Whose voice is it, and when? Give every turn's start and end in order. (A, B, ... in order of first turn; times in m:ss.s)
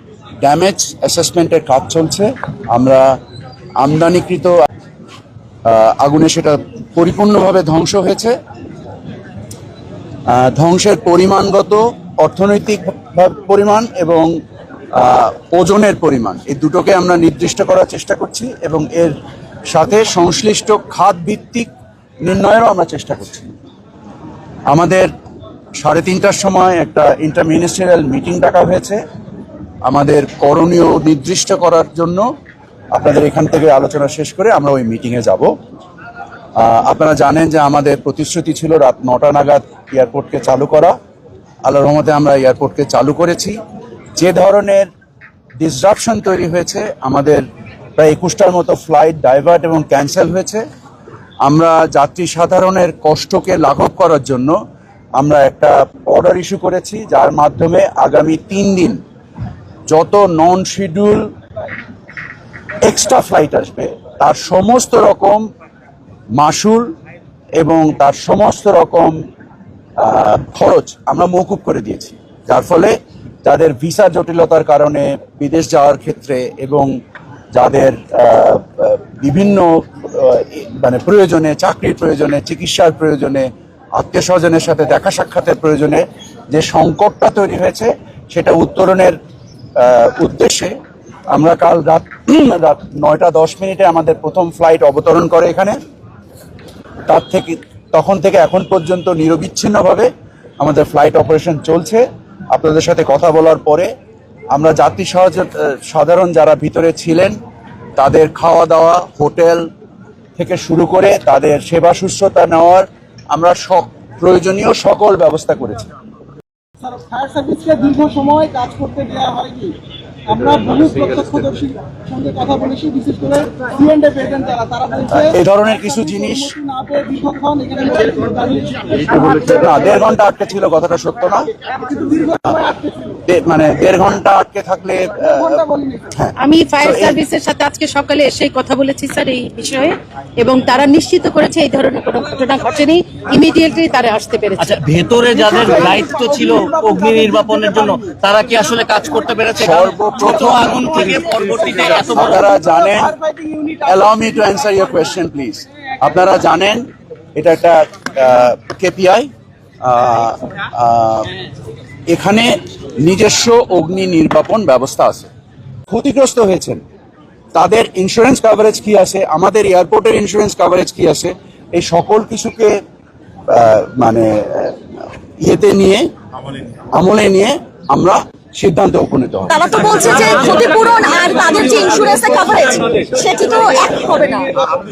0:00.4-0:03.2 A
0:03.8-0:04.6 A
0:05.6-0:08.4 A
0:10.3-0:14.3 A
0:14.9-0:19.2 A
0:19.7-0:21.7 A
0:22.2-0:23.5 A
0:24.7-0:25.1 A
0:25.8-0:29.0 A
0:29.8-0:32.2 A
0:32.9-0:35.5 A
0:36.6-0:41.0 A
0:41.6-0:43.6 A
0:44.2-0:44.9 A
0:45.6-0:47.4 A
0:48.0-0:50.6 A
0:51.4-0:54.6 A
0:55.2-0:59.0 A
0:59.9-1:01.3 A
1:02.8-1:05.4 A
1:06.4-1:06.9 A
1:07.6-1:09.2 A
1:10.0-1:16.9 A
1:17.5-1:29.2 A
1:29.8-1:30.8 A
1:31.3-1:35.8 A
1:37.1-1:43.9 A
1:44.5-1:47.4 A
1:48.0-1:49.7 A
1:50.4-1:55.9 A
1:56.8-1:59.8 B
2:00.3-2:05.3 B
2:05.2-2:06.5 A
2:06.2-2:09.1 B
2:09.1-2:11.5 A
2:11.7-2:13.2 B
2:13.2-2:17.2 A
2:15.2-2:16.1 B
2:16.4-2:24.8 C
2:24.6-2:32.4 D
2:25.5-2:27.8 B
2:29.6-2:31.0 A
2:31.9-2:33.8 B
2:32.1-2:33.2 A
2:33.8-2:39.3 A
2:39.8-2:41.3 A
2:42.1-2:45.3 A
2:45.9-2:46.8 A
2:47.5-2:52.8 A
2:53.5-2:56.1 A
2:56.9-2:59.6 A
2:59.5-3:04.5 E